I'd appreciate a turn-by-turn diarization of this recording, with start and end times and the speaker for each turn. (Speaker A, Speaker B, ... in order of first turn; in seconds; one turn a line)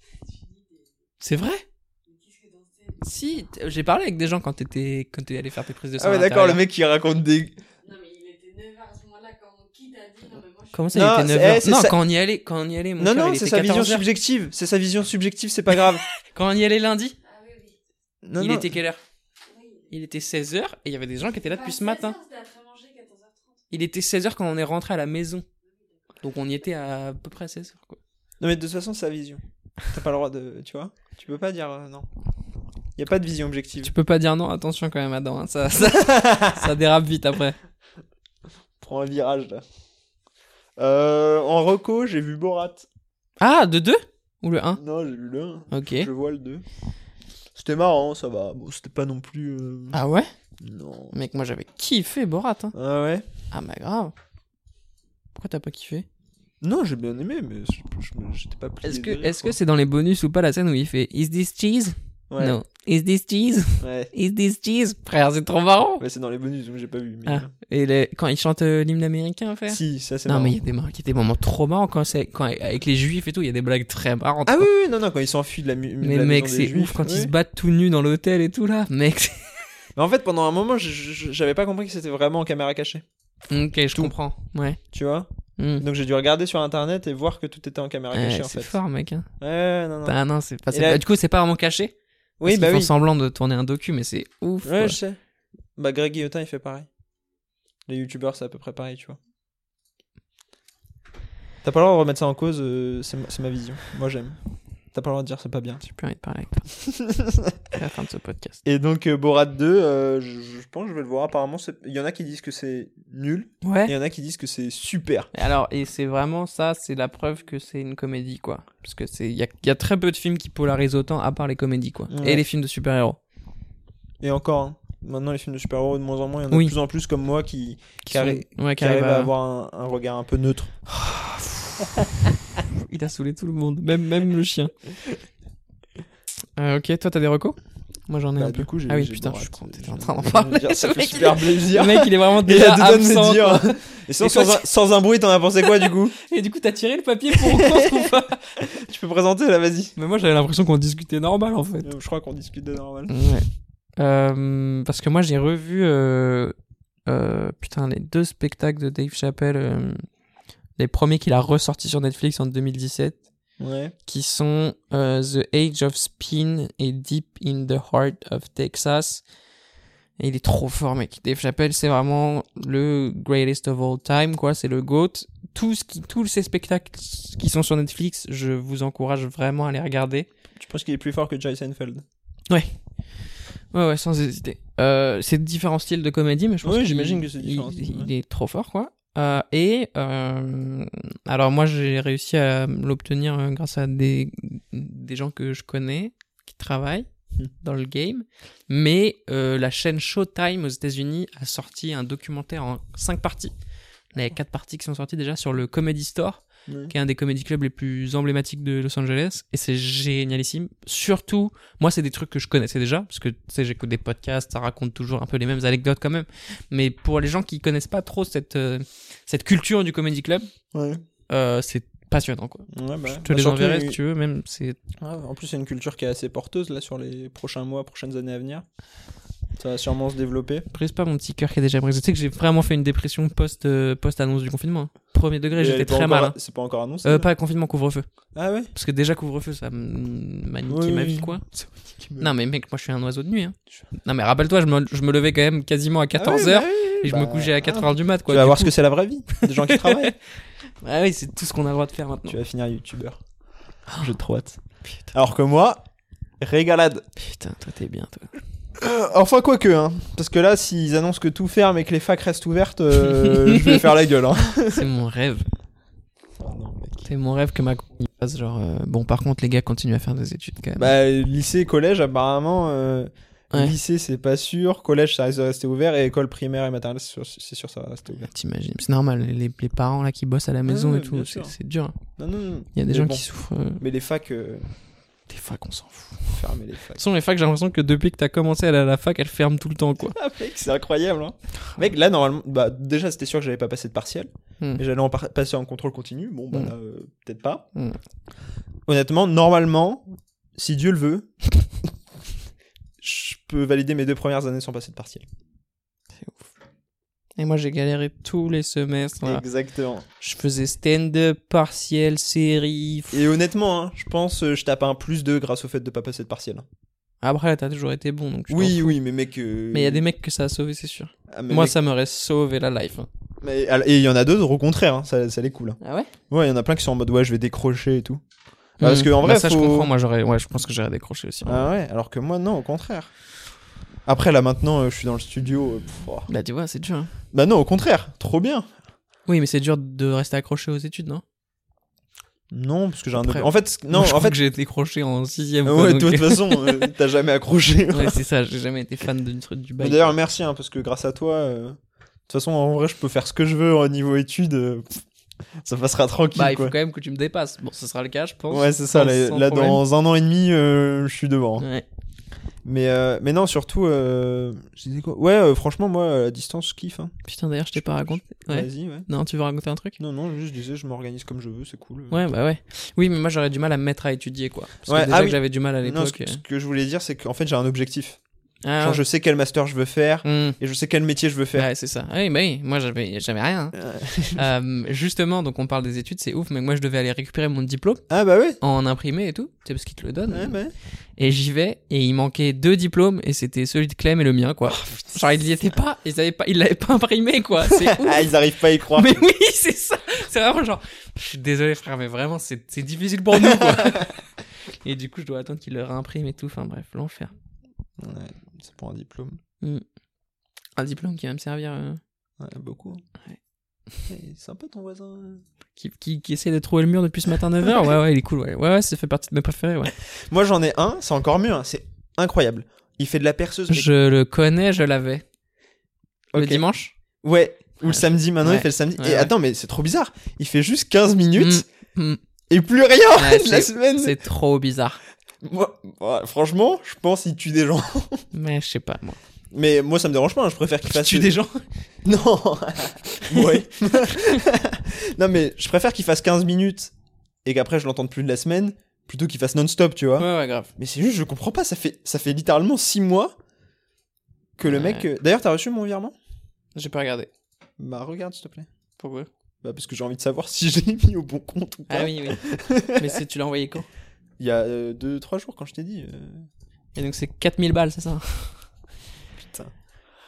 Speaker A: 0.3-0.8
Speaker B: 1.2-1.6
Speaker A: 2.1-3.5
Speaker B: 3.0-6.6
Speaker C: 6.0-7.6
Speaker A: 7.8-10.9
Speaker B: 10.7-14.1
Speaker C: 10.9-12.0
Speaker C: 13.0-16.1
Speaker B: 16.3-17.2
Speaker A: 17.2-17.8
Speaker C: 18.2-18.8
Speaker B: 18.4-19.0
Speaker A: 19.5-19.9
Speaker B: 19.9-22.2
Speaker A: 21.4-23.6
Speaker B: 23.7-25.4
Speaker B: 26.2-28.0
Speaker C: 28.4-32.1
Speaker C: 33.0-33.9
Speaker B: 33.8-37.6
Speaker C: 35.9-36.6
Speaker C: 38.8-39.6
Speaker C: 40.8-42.9
Speaker B: 43.4-44.8
Speaker C: 44.8-46.6
Speaker B: 45.7-46.1
Speaker C: 47.5-50.0
Speaker B: 49.9-50.3
Speaker C: 50.6-51.1
Speaker B: 51.1-52.7
Speaker C: 52.7-53.3
Speaker B: 53.5-54.1
Speaker B: 55.4-56.1
Speaker C: 56.6-59.6
Speaker B: 58.8-66.0
Speaker C: 62.3-62.6
Speaker C: 63.8-64.1
Speaker C: 66.0-67.5
Speaker B: 67.3-74.7
Speaker C: 69.7-70.6
Speaker C: 74.5-77.3
Speaker B: 76.0-79.6
Speaker C: 80.0-83.0
Speaker B: 83.5-84.8
Speaker C: 84.9-88.8
Speaker B: 85.6-85.8
Speaker B: 88.1-89.3
Speaker C: 89.4-90.2
Speaker B: 90.0-91.9
Speaker C: 90.7-91.0
Speaker C: 92.4-92.9
Speaker B: 92.5-95.0
Speaker C: 94.6-95.2
Speaker C: 95.8-96.9
Speaker C: 97.9-99.2
Speaker C: 101.6-104.4
Speaker C: 104.9-105.8
Speaker B: 105.8-106.7
Speaker C: 107.0-107.6
Speaker B: 107.7-108.6
Speaker C: 108.7-115.3
Speaker B: 113.6-113.9
Speaker B: 115.3-123.2
Speaker C: 122.1-122.5
Speaker C: 124.2-130.8
Speaker B: 128.1-129.3
Speaker B: 130.9-131.9
Speaker B: 132.7-134.7
Speaker B: 136.6-144.6
Speaker C: 138.4-146.2
Speaker B: 146.2-148.4
Speaker C: 147.3-149.9
Speaker B: 150.0-151.9
Speaker C: 151.8-153.1
Speaker B: 153.1-156.6
Speaker B: 157.1-160.1
Speaker B: 160.8-163.2
Speaker C: 163.6-163.9
Speaker B: 164.1-169.2
Speaker B: 170.2-180.3
Speaker C: 180.6-182.0
Speaker B: 182.5-182.7
Speaker B: 183.7-197.1
Speaker C: 186.6-188.1
Speaker B: 197.6-203.5
Speaker B: 204.1-220.5
Speaker C: 206.7-206.9
Speaker C: 220.7-221.0
Speaker B: 221.3-224.8
Speaker C: 222.7-224.0
Speaker C: 225.0-228.7
Speaker C: 229.6-230.7
Speaker B: 230.7-236.4
Speaker C: 235.6-237.3
Speaker B: 237.0-238.1
Speaker C: 238.3-238.7
Speaker B: 238.7-241.7
Speaker C: 240.7-242.3
Speaker B: 242.2-248.7
Speaker C: 246.2-250.2
Speaker B: 249.3-250.1
Speaker B: 250.8-252.4
Speaker C: 252.3-253.2
Speaker C: 254.0-254.6
Speaker C: 255.1-255.8
Speaker C: 256.4-257.1
Speaker B: 257.2-258.4
Speaker C: 258.8-264.9
Speaker B: 263.1-263.8
Speaker B: 264.7-265.5
Speaker C: 266.4-267.1
Speaker B: 267.1-270.9
Speaker C: 270.8-278.3
Speaker B: 278.1-282.0
Speaker C: 280.7-281.5
Speaker C: 282.2-283.2
Speaker B: 282.8-283.8
Speaker C: 283.8-284.7
Speaker B: 285.3-286.3
Speaker C: 286.3-287.0
Speaker B: 287.0-290.2
Speaker C: 290.0-297.7
Speaker C: 298.9-301.3
Speaker C: 303.0-305.3
Speaker B: 306.2-306.5
Speaker B: 307.4-309.4
Speaker C: 309.2-310.1
Speaker B: 310.2-313.2
Speaker C: 313.1-316.6
Speaker B: 317.2-319.0
Speaker C: 318.5-320.1
Speaker B: 319.7-323.1
Speaker C: 321.3-321.8
Speaker C: 323.4-325.8
Speaker B: 325.8-326.1
Speaker C: 326.3-328.2
Speaker C: 328.8-329.9
Speaker B: 328.8-331.7
Speaker C: 331.5-333.1
Speaker C: 334.1-336.3
Speaker B: 336.3-337.1
Speaker C: 337.3-338.7
Speaker B: 339.3-341.2
Speaker C: 342.5-344.4
Speaker B: 343.1-346.9
Speaker C: 345.6-348.2
Speaker B: 347.9-350.1
Speaker C: 349.8-351.8
Speaker C: 352.3-355.0
Speaker C: 355.6-356.8
Speaker B: 356.4-359.8
Speaker C: 358.5-361.7
Speaker B: 361.6-361.9
Speaker C: 362.6-367.1
Speaker B: 367.2-370.0
Speaker C: 367.8-369.1
Speaker C: 370.0-372.2
Speaker B: 372.1-376.4
Speaker C: 374.9-378.2
Speaker B: 378.6-379.0
Speaker C: 378.8-381.7
Speaker B: 380.2-380.6
Speaker B: 381.6-383.8
Speaker C: 383.7-384.4
Speaker B: 384.3-388.1
Speaker C: 388.1-388.6
Speaker B: 388.6-390.6
Speaker C: 390.3-390.7
Speaker B: 391.2-398.3
Speaker C: 394.7-395.2
Speaker C: 397.7-399.3
Speaker B: 398.9-404.2
Speaker C: 403.6-404.0
Speaker B: 404.8-407.3
Speaker C: 408.0-409.4
Speaker B: 410.8-412.0
Speaker C: 412.4-413.0
Speaker C: 414.1-415.4
Speaker B: 415.8-419.9
Speaker C: 420.0-423.9
Speaker B: 423.7-425.2
Speaker C: 426.3-426.7
Speaker B: 426.4-426.9
Speaker C: 427.2-431.7
Speaker B: 427.8-429.3
Speaker B: 431.4-432.2
Speaker C: 432.5-434.2
Speaker B: 433.1-435.0
Speaker C: 435.4-438.2
Speaker B: 438.3-439.2
Speaker C: 439.5-441.3
Speaker B: 440.9-441.6
Speaker C: 442.1-446.9
Speaker B: 443.3-444.4
Speaker C: 447.4-453.4
Speaker B: 450.2-450.7
Speaker C: 454.6-456.2
Speaker B: 454.7-455.1
Speaker B: 456.8-457.3
Speaker C: 457.8-458.7
Speaker B: 459.0-459.3
Speaker C: 459.6-463.2
Speaker B: 461.9-463.9
Speaker C: 464.4-466.5
Speaker B: 466.9-468.6
Speaker C: 469.4-469.7